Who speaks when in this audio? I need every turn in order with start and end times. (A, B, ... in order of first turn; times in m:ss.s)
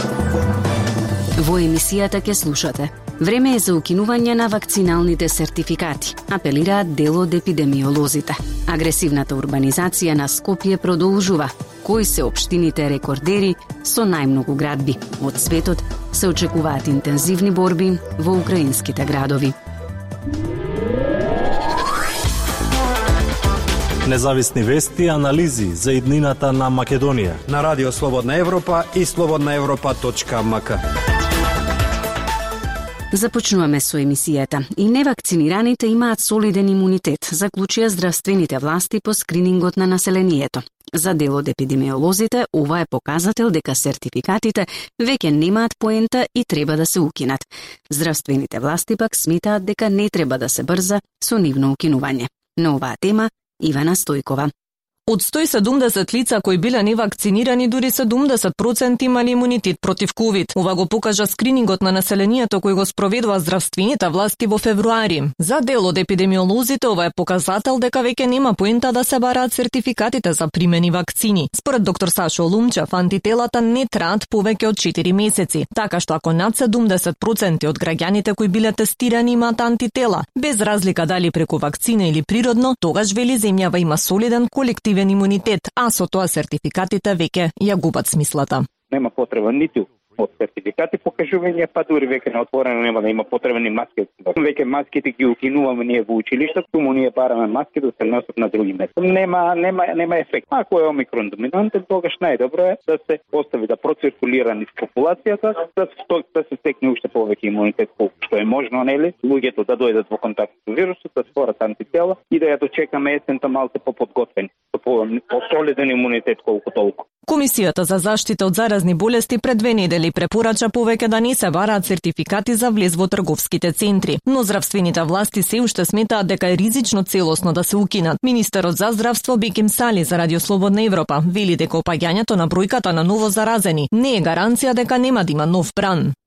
0:01.4-0:19.5 A
0:24.0-0:27.4 B
0:27.5-0:30.8 C
0:33.1-0:54.5 A
0:55.1-1:28.7 D
1:28.9-1:57.0 E
1:57.3-2:16.1 D